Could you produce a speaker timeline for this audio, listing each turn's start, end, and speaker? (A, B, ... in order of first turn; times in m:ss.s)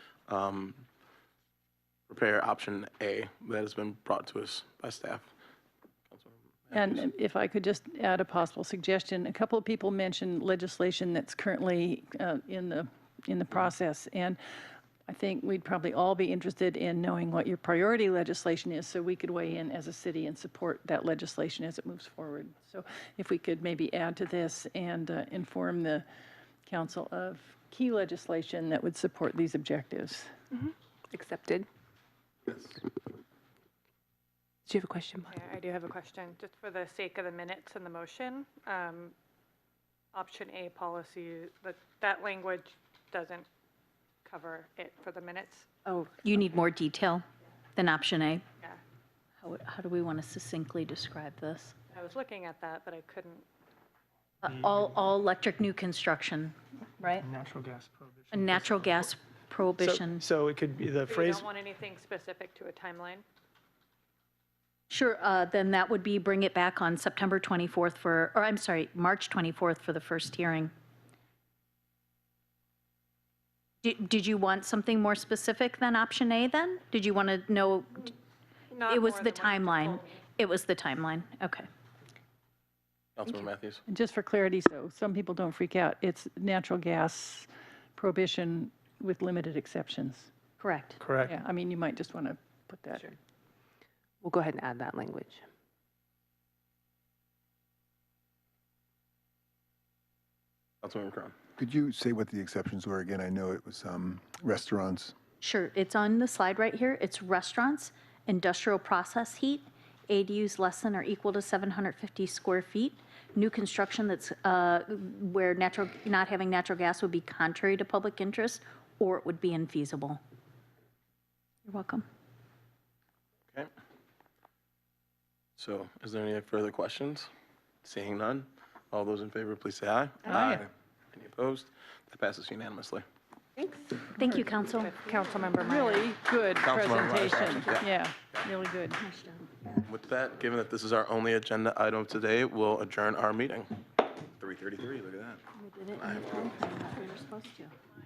0:00.3-0:00.8 A
0:02.1-0:05.3 A
0:06.1-0:07.0 A
0:06.7-0:14.4 B
0:15.1-0:26.0 B
0:26.7-0:30.3 B
0:30.5-0:31.7 C
0:34.7-0:35.3 C
0:35.3-0:39.1 D
0:40.1-0:43.5 D
0:44.2-0:45.7 D
0:46.2-0:47.2 E
0:47.8-0:48.4 E
0:49.4-0:51.8 E
0:51.9-0:53.4 D
0:54.4-0:57.3 E
0:57.2-0:59.1 F
0:58.3-1:00.2 E
0:59.8-1:01.5 F
1:01.1-1:03.2 D
1:04.9-1:10.7 E
1:13.8-1:18.1 E
1:18.7-1:20.1 D
1:18.9-1:21.7 E
1:23.2-1:23.8 A
1:23.9-1:30.3 B
1:30.6-1:31.0 E
1:31.0-1:31.4 F
1:31.2-1:33.1 B
1:34.2-1:35.4 C
1:40.8-1:41.3 A
1:41.6-1:45.2 G
1:45.4-2:00.2 E
2:01.7-2:02.0 E
2:05.6-2:07.3 A
2:07.8-2:13.0 A
2:10.3-2:10.6 F
2:13.6-2:13.9 C
2:14.1-2:14.9 E
2:14.8-2:16.1 D
2:15.6-2:19.0 B
2:16.6-2:17.9 A
2:19.0-2:19.5 E
2:19.8-2:23.7 A
2:24.4-2:25.4 A
2:25.6-2:27.7 E
2:26.0-2:26.4 A